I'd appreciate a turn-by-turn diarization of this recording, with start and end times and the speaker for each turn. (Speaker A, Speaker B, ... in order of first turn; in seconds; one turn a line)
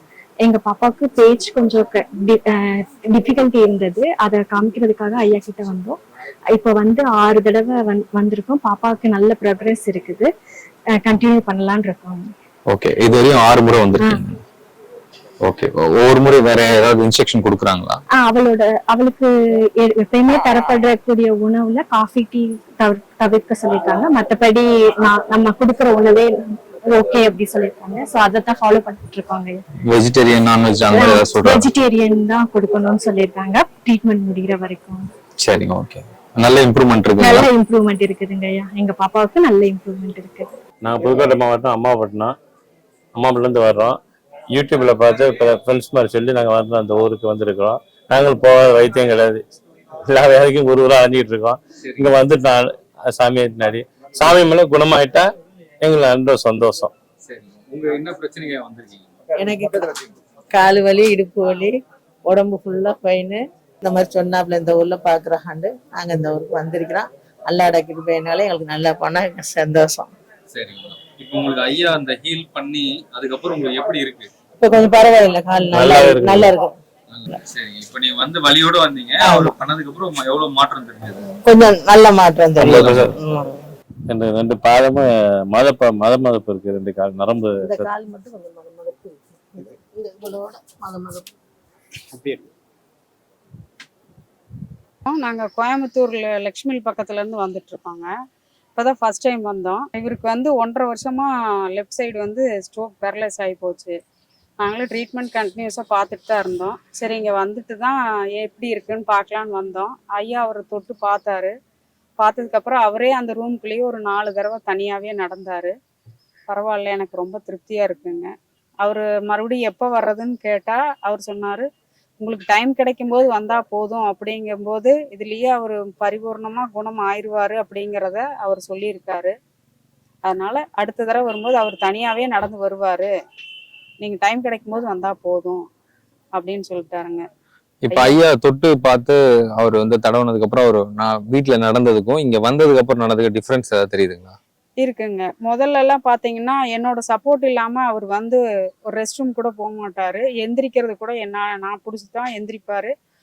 Speaker A: 0.4-2.5
Speaker A: 3.1-6.0
Speaker A: 6.5-10.3
Speaker A: 11.0-12.2
Speaker B: 12.7-14.4
Speaker B: 15.4-18.0
Speaker A: 18.1-26.4
Speaker A: 26.9-29.6
Speaker B: 29.9-31.7
Speaker A: 30.9-35.0
Speaker B: 35.4-37.5
Speaker A: 37.2-40.5
Speaker C: 40.8-42.3
Speaker C: 43.2-44.0
Speaker C: 44.5-49.4
Speaker C: 50.0-55.3
Speaker C: 55.8-56.9
Speaker D: 57.3-59.0
Speaker E: 59.4-60.0
Speaker E: 60.5-70.1
Speaker D: 70.5-74.2
Speaker E: 74.6-76.7
Speaker C: 75.7-76.5
Speaker D: 77.1-81.2
Speaker E: 79.2-79.6
Speaker E: 81.4-83.6
Speaker C: 82.6-83.1
Speaker C: 84.1-87.9
Speaker E: 87.7-91.3
Speaker F: 95.0-98.1
Speaker F: 98.8-103.9
Speaker F: 104.6-111.5
Speaker F: 112.2-115.7
Speaker F: 116.5-118.3
Speaker F: 118.8-121.7
Speaker F: 122.2-129.3
Speaker F: 130.2-133.1
Speaker F: 134.0-135.7
Speaker F: 136.3-137.2
Speaker B: 137.8-144.4
Speaker F: 137.9-138.2
Speaker F: 144.8-152.9